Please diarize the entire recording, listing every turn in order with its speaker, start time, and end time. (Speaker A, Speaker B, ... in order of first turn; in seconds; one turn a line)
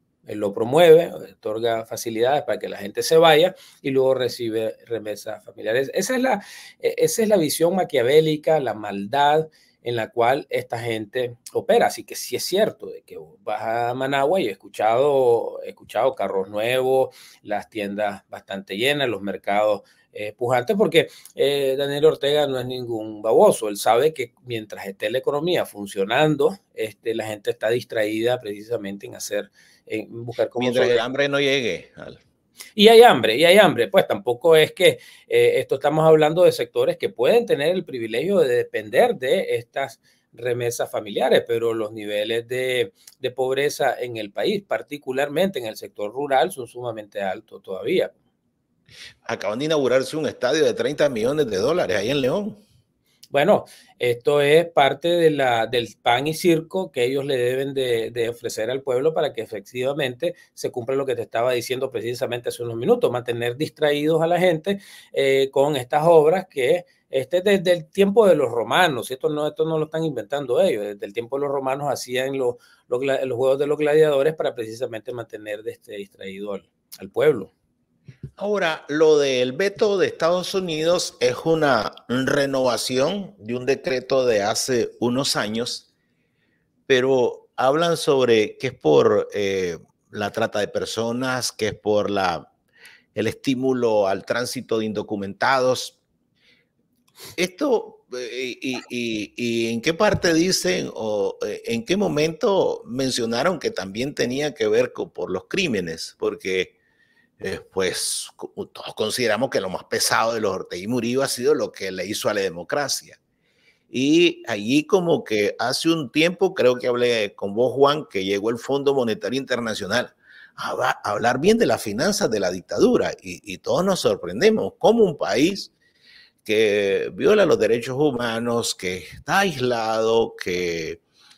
Speaker A: 0.3-31.0
Speaker B: 30.6-32.2
Speaker A: 32.8-48.1
Speaker B: 49.2-52.6
Speaker A: 53.3-77.5
Speaker B: 78.4-85.9
Speaker B: 86.9-92.5
Speaker B: 93.2-96.0
Speaker B: 97.4-106.7
Speaker B: 107.4-113.2
Speaker B: 113.9-125.7
Speaker B: 126.5-131.0